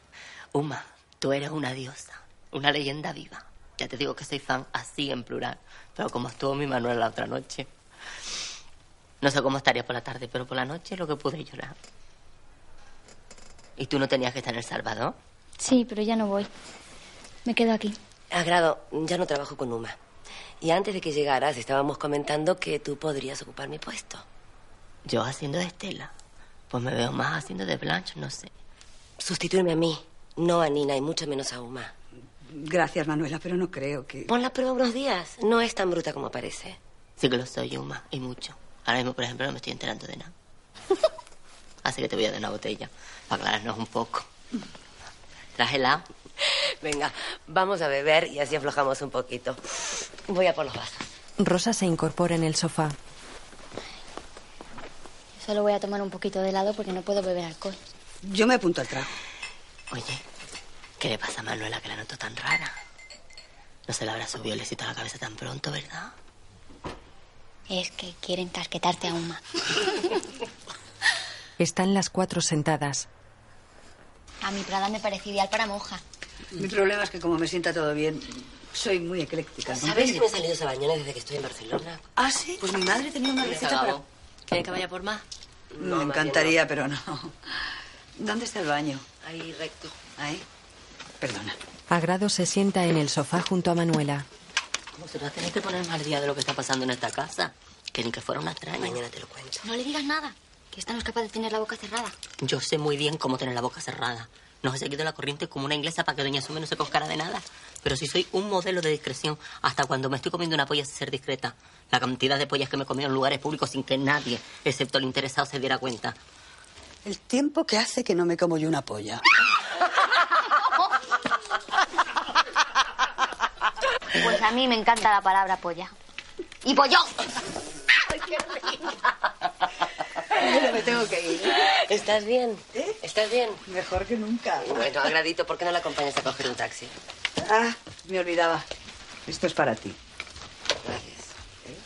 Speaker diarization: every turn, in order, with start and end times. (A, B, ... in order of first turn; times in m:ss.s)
0:00.5-0:07.7 A
0:09.2-0:11.8 A
0:13.8-0:15.2 A
0:15.6-0:16.5 B
0:17.4-0:18.0 B
0:18.3-0:20.0 C
0:20.6-0:24.2 C
0:25.0-0:26.1 A
0:26.7-0:28.5 A
0:29.2-0:31.9 C
0:32.5-0:34.3 D
0:34.3-0:36.8 C
0:37.2-0:40.3 A
0:41.8-0:44.3 A
0:45.6-0:46.0 A
0:46.8-0:49.6 C
0:50.3-0:51.0 C
0:51.4-0:53.0 E
0:55.4-0:57.8 B
0:58.2-0:59.1 D
0:59.9-1:00.2 A
1:01.0-1:02.8 A
1:03.9-1:06.1 A
1:07.7-1:10.1 B
1:11.6-1:13.1 E
1:14.4-1:16.0 B
1:16.5-1:20.2 D
1:19.7-1:22.0 C
1:22.2-1:24.0 D
1:23.4-1:25.2 A
1:25.8-1:26.6 C
1:25.8-1:27.4 D
1:28.2-1:29.0 D
1:29.2-1:29.9 C
1:30.2-1:30.4 D
1:31.2-1:31.6 D
1:31.9-1:34.2 E
1:35.0-1:39.0 A
1:38.8-1:39.6 C
1:39.6-1:42.1 B
1:42.4-1:56.2 A
1:57.0-1:59.2 D
2:04.2-2:05.9 B
2:06.6-2:07.2 B
2:10.4-2:11.6 D
2:11.5-2:13.6 C
2:13.6-2:14.8 D
2:14.6-2:16.9 C
2:17.4-2:18.7 D
2:19.3-2:20.0 D
2:20.8-2:21.3 C